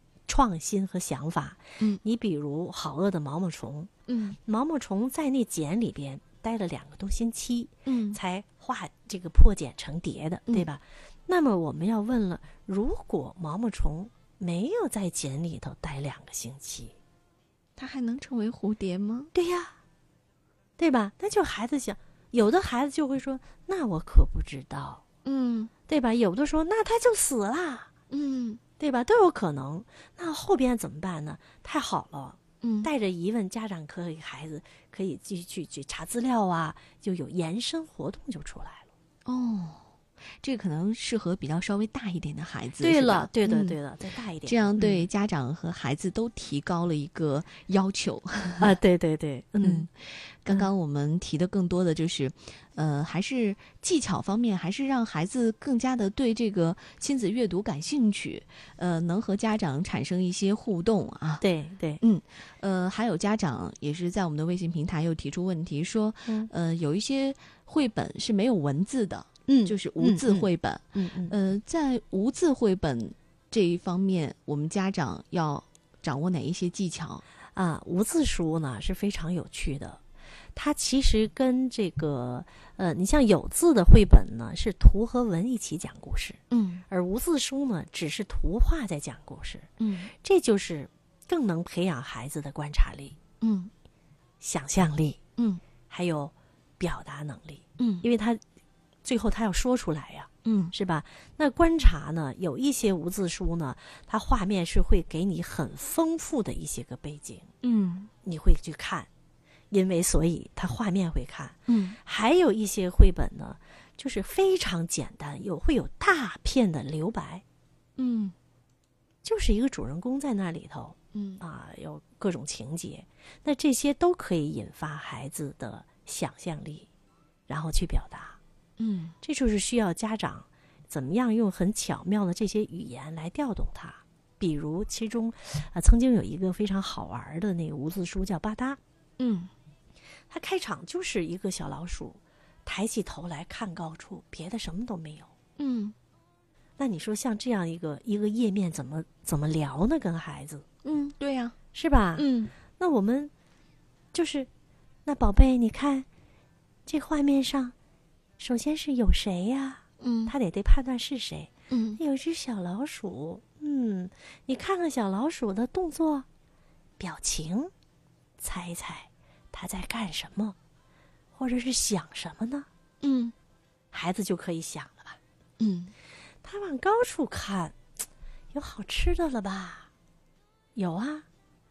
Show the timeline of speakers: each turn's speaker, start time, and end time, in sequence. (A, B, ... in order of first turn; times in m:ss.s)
0:00.3-0:03.9 A
0:04.1-0:04.4 B
0:04.4-0:16.9 A
0:07.8-0:08.2 B
0:17.8-0:19.3 B
0:19.3-0:19.7 A
0:20.8-0:25.0 A
0:25.2-0:25.7 B
0:25.9-0:27.9 A
0:28.1-0:28.6 B
0:28.8-0:38.9 A
0:32.6-0:32.9 B
0:39.2-0:39.8 B
0:40.4-0:43.8 B
0:42.8-0:45.1 A
0:44.4-0:48.7 B
0:48.6-0:49.9 A
0:49.6-1:01.4 B
1:01.4-1:02.0 A
1:02.0-1:17.2 B
1:09.5-1:11.3 A
1:17.5-1:20.0 A
1:20.5-1:33.2 A
1:26.5-1:26.8 B
1:29.8-1:30.1 B
1:33.4-1:33.7 B
1:34.4-1:35.2 A
1:35.9-1:38.4 A
1:37.8-1:38.0 B
1:39.0-1:47.5 A
1:40.4-1:40.7 B
1:47.6-1:48.1 B
1:48.2-1:49.1 A
1:49.7-1:57.4 A
1:51.7-1:52.0 B
1:58.0-1:58.3 B
1:59.2-2:06.9 A
2:01.1-2:01.4 B
2:07.5-2:08.4 A
2:08.8-2:09.1 B
2:09.2-2:18.8 A
2:19.2-2:19.5 B
2:20.3-2:25.3 A
2:25.6-2:25.9 B
2:26.8-2:30.6 A
2:30.8-2:31.6 B
2:31.7-2:33.3 A
2:32.2-2:32.5 B
2:34.1-2:34.5 A
2:35.0-2:36.0 A
2:36.9-2:37.7 A
2:38.4-2:46.2 A
2:40.0-2:40.3 B
2:41.7-2:42.0 B
2:47.0-2:47.7 A
2:48.4-2:50.6 A
2:51.3-2:52.7 A
2:53.0-2:53.3 B
2:53.9-2:55.2 A
2:55.6-2:55.9 B
2:56.4-2:57.8 A
2:58.5-2:59.9 A
3:00.7-3:01.2 A